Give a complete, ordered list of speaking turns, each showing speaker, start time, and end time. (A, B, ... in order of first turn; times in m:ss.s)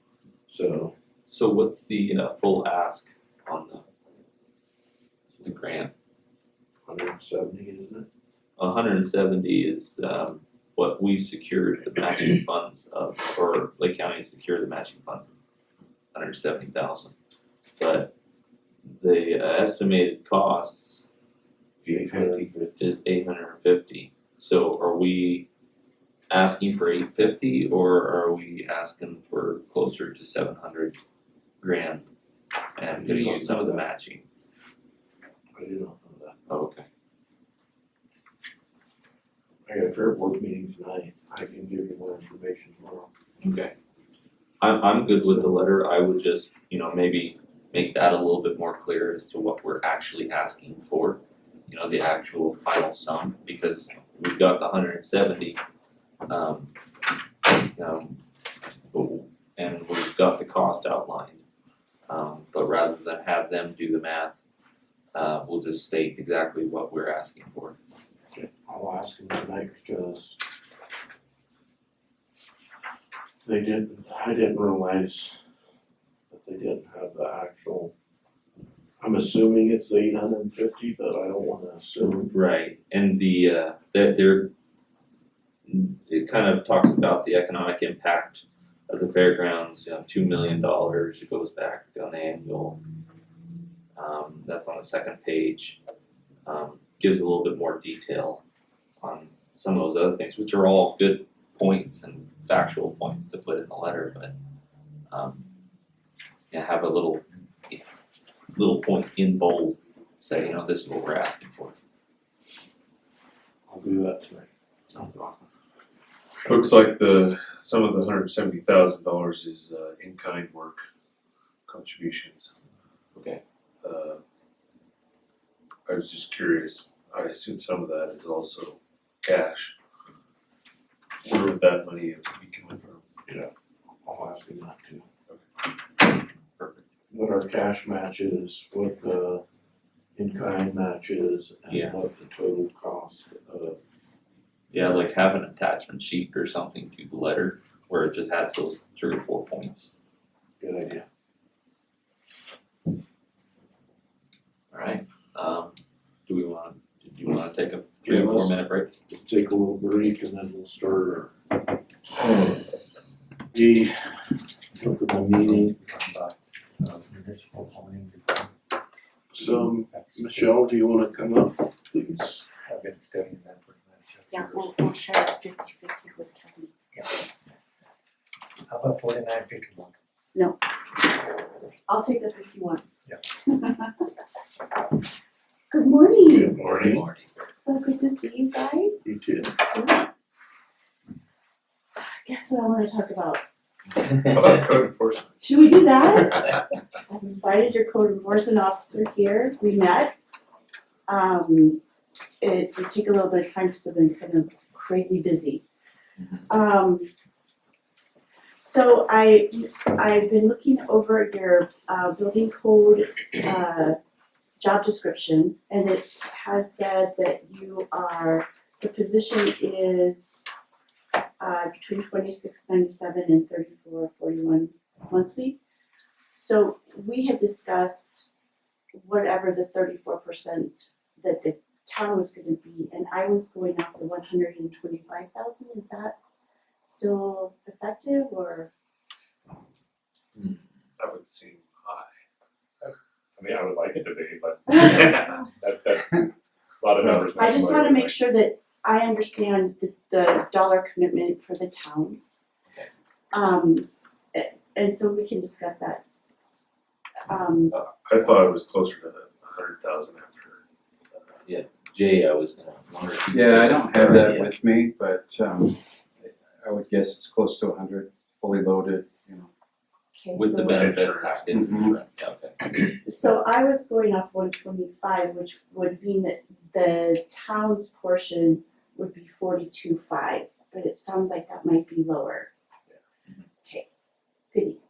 0:00.5-0:00.9 A
0:01.2-0:03.8 B
0:05.4-0:05.9 B
0:06.8-0:08.1 A
0:08.6-0:15.3 B
0:16.1-0:17.1 B
0:17.8-0:18.1 B
0:18.8-0:21.0 B
0:21.8-0:22.7 A
0:21.8-0:25.5 B
0:26.3-0:31.0 B
0:31.6-0:32.0 B
0:32.8-0:34.2 B
0:32.9-0:33.8 A
0:35.5-0:36.4 A
0:36.5-0:36.8 B
0:39.6-0:43.1 A
0:43.4-0:43.7 B
0:44.6-0:55.6 B
0:56.3-0:56.7 B
0:57.7-0:58.2 B
0:58.9-1:01.4 B
1:02.1-1:04.4 B
1:05.1-1:07.8 B
1:08.3-1:10.4 A
1:13.4-1:15.4 A
1:16.3-1:17.9 A
1:19.0-1:22.3 A
1:22.3-1:24.5 B
1:25.6-1:32.8 B
1:34.0-1:35.8 B
1:36.4-1:38.4 B
1:39.0-1:44.3 B
1:45.1-1:45.5 B
1:46.5-1:47.8 B
1:48.5-1:51.8 B
1:53.7-1:54.5 A
1:54.9-1:55.5 B
1:56.4-2:00.8 C
2:01.7-2:02.5 C
2:03.1-2:03.4 B
2:03.8-2:04.2 C
2:05.9-2:09.7 C
2:11.2-2:13.0 C
2:13.2-2:13.5 A
2:14.0-2:15.0 A
2:16.6-2:16.8 B
2:17.1-2:19.4 A
2:20.1-2:23.8 A
2:21.7-2:22.0 B
2:24.7-2:29.9 B
2:30.6-2:31.0 A
2:34.7-2:38.9 B
2:38.0-2:41.3 A
2:43.5-2:45.8 A
2:45.7-2:48.5 D
2:49.3-2:52.4 A
2:49.4-2:50.5 D
2:52.7-2:54.4 D
2:54.3-2:56.7 E
2:58.7-2:59.9 D
3:00.3-3:00.6 E
3:01.9-3:04.0 E
3:05.7-3:06.6 E
3:06.2-3:07.0 A
3:06.6-3:07.0 C
3:06.8-3:07.3 B
3:07.5-3:09.0 E
3:09.0-3:09.6 A
3:09.6-3:10.3 E
3:12.0-3:13.4 E
3:14.3-3:15.6 C
3:15.4-3:20.1 E
3:21.1-3:21.8 E
3:22.4-3:25.6 E
3:26.5-3:27.1 E
3:28.6-3:34.0 E
3:34.6-3:40.5 E
3:41.4-3:45.6 E
3:46.3-3:48.3 E
3:48.9-3:56.1 E
3:56.8-3:58.7 E
4:01.0-4:02.1 C
4:03.4-4:04.9 F
4:04.7-4:05.5 E
4:04.8-4:05.4 C
4:05.6-4:06.3 F
4:06.8-4:08.0 F
4:07.0-4:12.2 E
4:07.1-4:07.8 C
4:13.3-4:16.0 E
4:17.3-4:17.7 E
4:18.0-4:20.6 C
4:21.4-4:24.5 B
4:23.3-4:29.5 G
4:30.1-4:31.5 E
4:30.3-4:32.7 B
4:30.7-4:31.5 C
4:31.5-4:32.0 G
4:33.0-4:42.5 E
4:44.5-4:44.8 E